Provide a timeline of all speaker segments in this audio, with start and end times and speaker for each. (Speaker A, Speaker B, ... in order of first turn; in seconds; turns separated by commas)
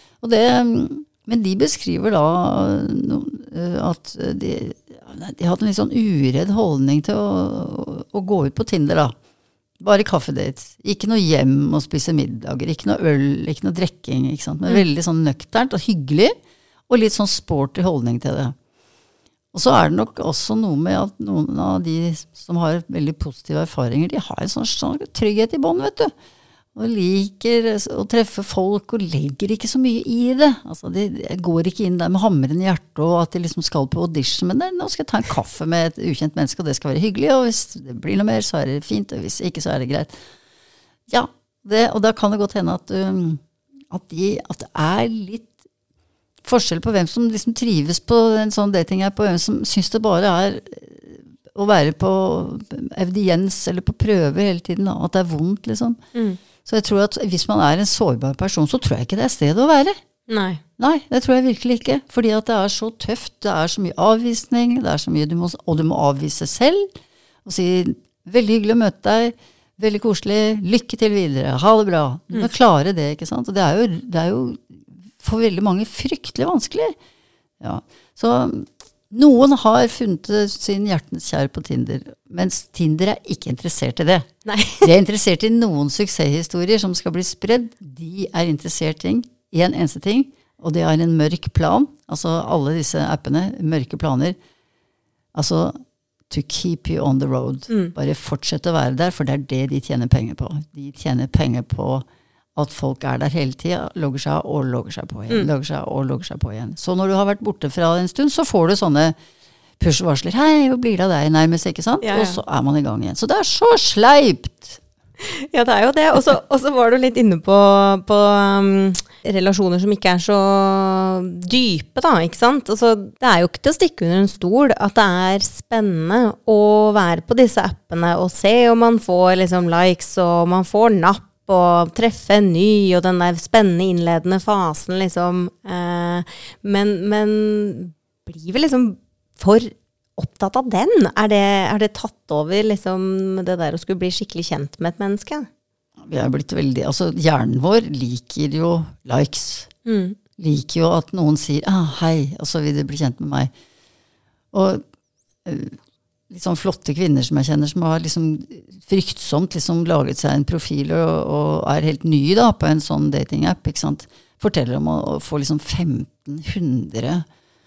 Speaker A: 0.2-9.1, Speaker A: 9.8-16.4, Speaker A: 16.9-18.6, Speaker A: 19.5-26.1, Speaker A: 26.8-40.2, Speaker A: 41.1-45.6, Speaker A: 46.4-56.0, Speaker B: 56.1-56.4, Speaker A: 56.6-60.0, Speaker B: 60.3-60.6, Speaker A: 60.8-77.0, Speaker A: 77.6-84.3, Speaker B: 84.5-84.9, Speaker A: 84.8-94.4, Speaker A: 95.3-109.2, Speaker B: 97.7-97.9, Speaker A: 109.8-114.8, Speaker B: 112.0-112.4, Speaker B: 115.2-145.5, Speaker A: 146.0-149.7, Speaker B: 149.9-150.2, Speaker A: 150.4-153.5, Speaker A: 154.5-154.8, Speaker A: 155.4-155.8, Speaker A: 156.3-167.2